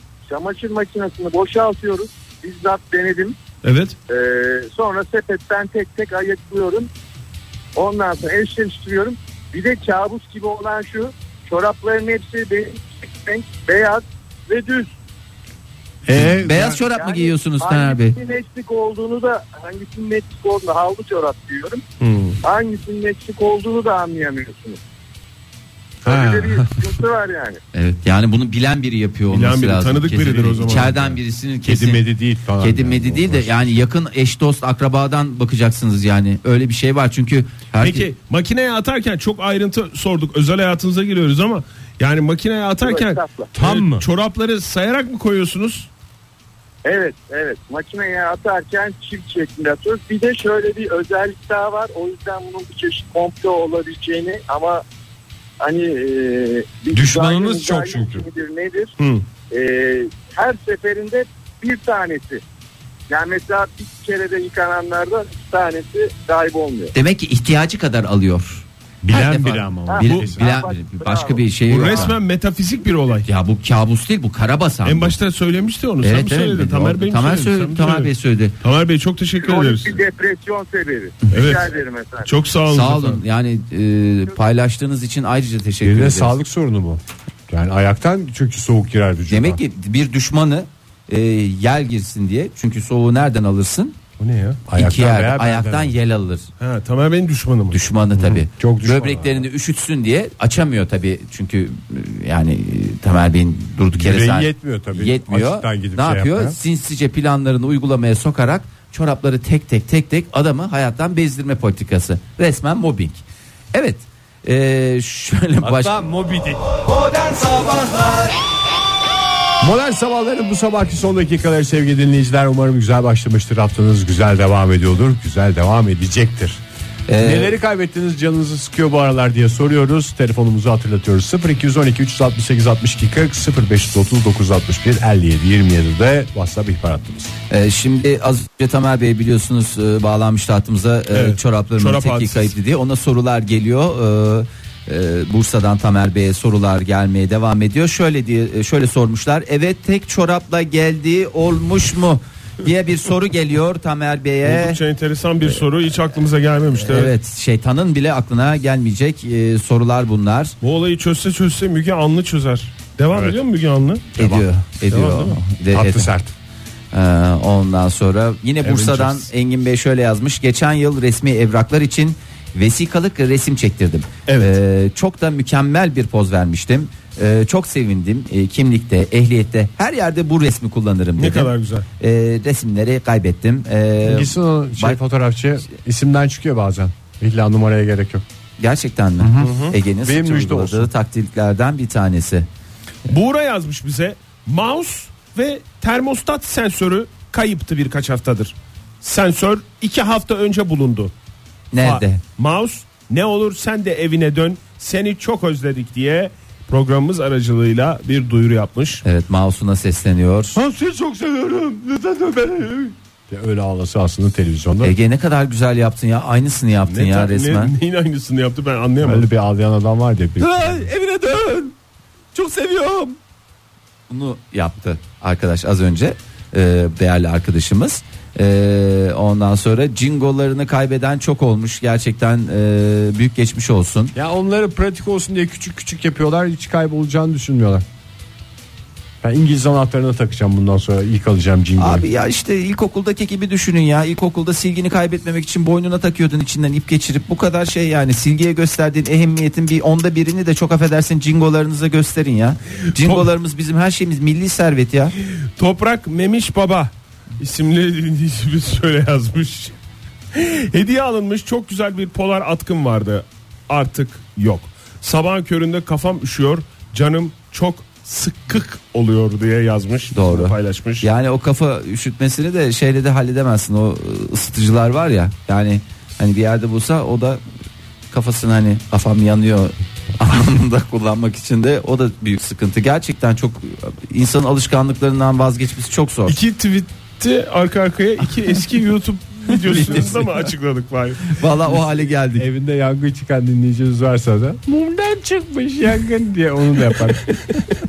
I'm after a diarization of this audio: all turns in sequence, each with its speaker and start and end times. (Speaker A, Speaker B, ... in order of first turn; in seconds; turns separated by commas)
Speaker A: 0.3-3.4, Speaker B: 3.6-4.0, Speaker A: 4.1-6.9, Speaker A: 7.8-14.9, Speaker C: 16.1-16.8, Speaker D: 16.4-18.2, Speaker A: 16.8-21.8, Speaker B: 22.0-22.4, Speaker A: 22.4-24.8, Speaker C: 26.0-26.9, Speaker A: 26.0-27.6, Speaker D: 27.7-32.0, Speaker B: 29.3-31.1, Speaker C: 30.7-33.8, Speaker D: 32.6-38.1, Speaker B: 37.8-45.9, Speaker A: 42.8-43.5, Speaker C: 43.5-44.0, Speaker A: 46.9-54.8, Speaker A: 55.6-58.9, Speaker C: 56.9-58.2, Speaker B: 59.0-59.2, Speaker A: 59.5-62.4, Speaker A: 63.1-66.9, Speaker D: 66.9-72.2, Speaker C: 69.0-70.5, Speaker A: 69.9-71.5, Speaker B: 71.7-73.3, Speaker D: 73.2-75.2, Speaker B: 74.8-80.0, Speaker D: 76.0-78.5, Speaker A: 79.4-82.3, Speaker B: 81.3-81.7, Speaker B: 82.2-83.2, Speaker D: 82.7-86.4, Speaker C: 85.8-89.6, Speaker D: 89.3-94.0, Speaker B: 94.2-94.6, Speaker C: 94.7-96.0, Speaker D: 94.8-96.5, Speaker B: 96.6-97.8, Speaker D: 97.7-116.0, Speaker C: 98.3-99.5, Speaker C: 103.9-106.6, Speaker C: 115.6-117.9, Speaker C: 119.6-126.6, Speaker D: 127.1-127.6, Speaker C: 127.2-137.3, Speaker D: 137.5-154.8, Speaker B: 141.1-142.5, Speaker B: 154.4-157.1, Speaker D: 156.8-160.6, Speaker B: 160.6-164.2, Speaker C: 163.1-163.4, Speaker D: 164.2-166.1, Speaker B: 164.9-165.4, Speaker C: 165.7-166.3, Speaker D: 166.9-185.0, Speaker B: 168.7-169.2, Speaker B: 174.3-174.6, Speaker B: 181.2-181.9, Speaker C: 184.0-188.2, Speaker D: 188.6-192.5, Speaker C: 189.2-190.9, Speaker B: 189.4-189.8, Speaker B: 193.1-201.1, Speaker D: 201.7-202.2, Speaker B: 201.8-209.0, Speaker D: 209.0-210.6, Speaker C: 210.6-214.9, Speaker D: 214.8-217.7, Speaker B: 216.9-219.3, Speaker C: 219.0-220.9, Speaker D: 220.4-221.8, Speaker D: 222.3-223.2, Speaker D: 224.1-234.1, Speaker C: 234.2-237.8, Speaker C: 239.2-242.1, Speaker D: 241.8-255.2, Speaker B: 253.0-253.3, Speaker B: 255.6-259.7, Speaker B: 260.3-271.1, Speaker D: 270.1-277.4, Speaker D: 278.1-286.4, Speaker B: 286.3-291.4, Speaker D: 289.6-290.4, Speaker D: 291.3-292.5, Speaker C: 292.3-297.5